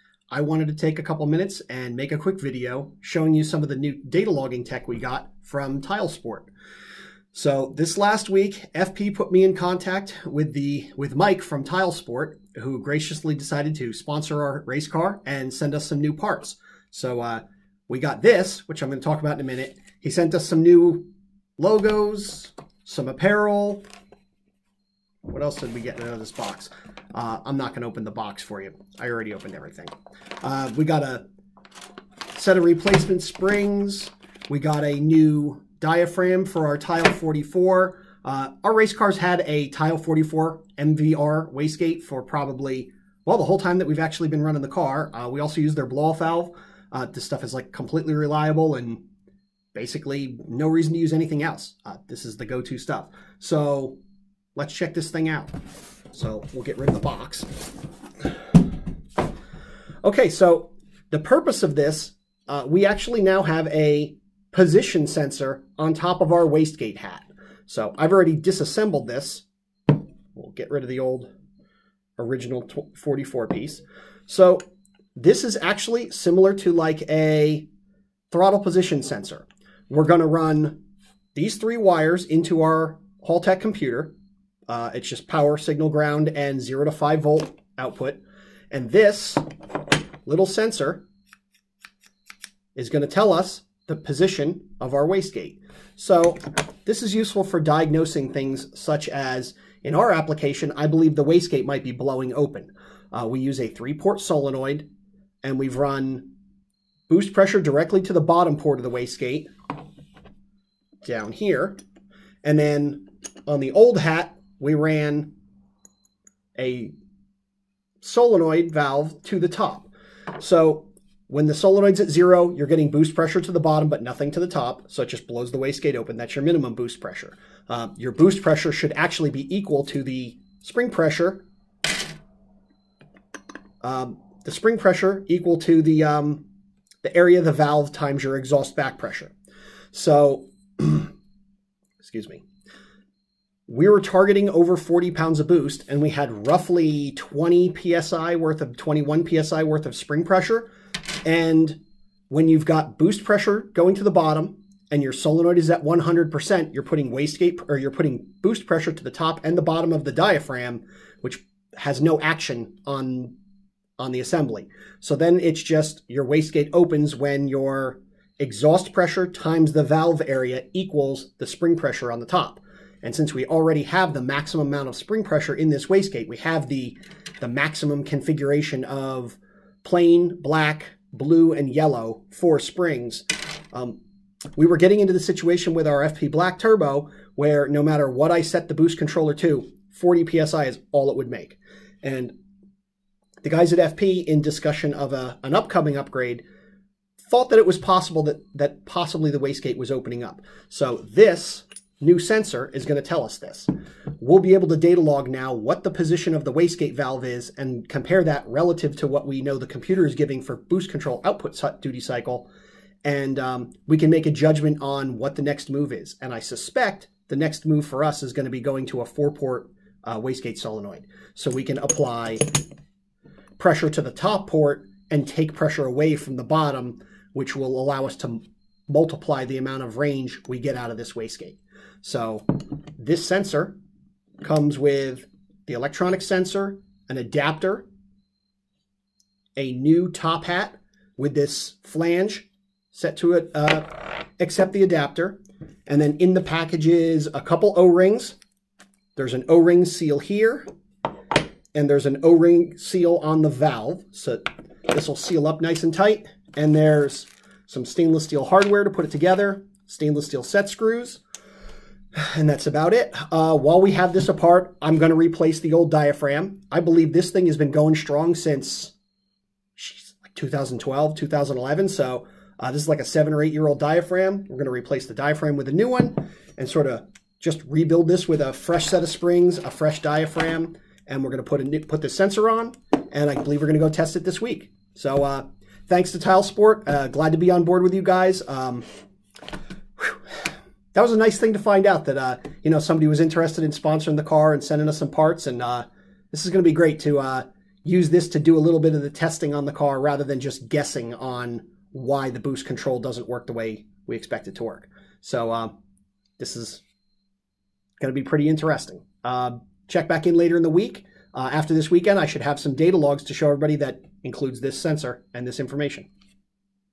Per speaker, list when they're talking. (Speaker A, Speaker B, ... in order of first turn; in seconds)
Speaker A: 0.3-6.5, 7.3-21.1, 21.6-23.8, 25.2-31.2, 32.3-49.0, 49.7-54.0, 54.5-55.5, 56.1-57.5, 60.0-69.5, 70.3-71.3, 72.2-74.6, 75.2-77.7, 78.3-80.8, 81.3-84.1, 84.7-88.2, 88.7-89.4, 90.2-91.0, 92.7-104.9, 105.4-106.3, 107.1-109.5, 111.0-111.8, 112.4-115.3, 116.5-116.9, 118.0-131.4, 133.8-136.4, 137.0-139.3, 139.9-141.1, 142.0-142.4, 143.7-150.7, 151.2-151.8, 152.3-163.3, 164.0-184.0, 184.6-192.3, 193.4-196.4, 197.2-212.5, 213.0-222.6, 223.6-233.8, 234.4-237.8, 239.6-248.4, 249.2-250.6, 251.7-261.2, 262.1-268.9, 269.8-288.8, 290.0-305.7, 306.4-306.8, 308.0-316.1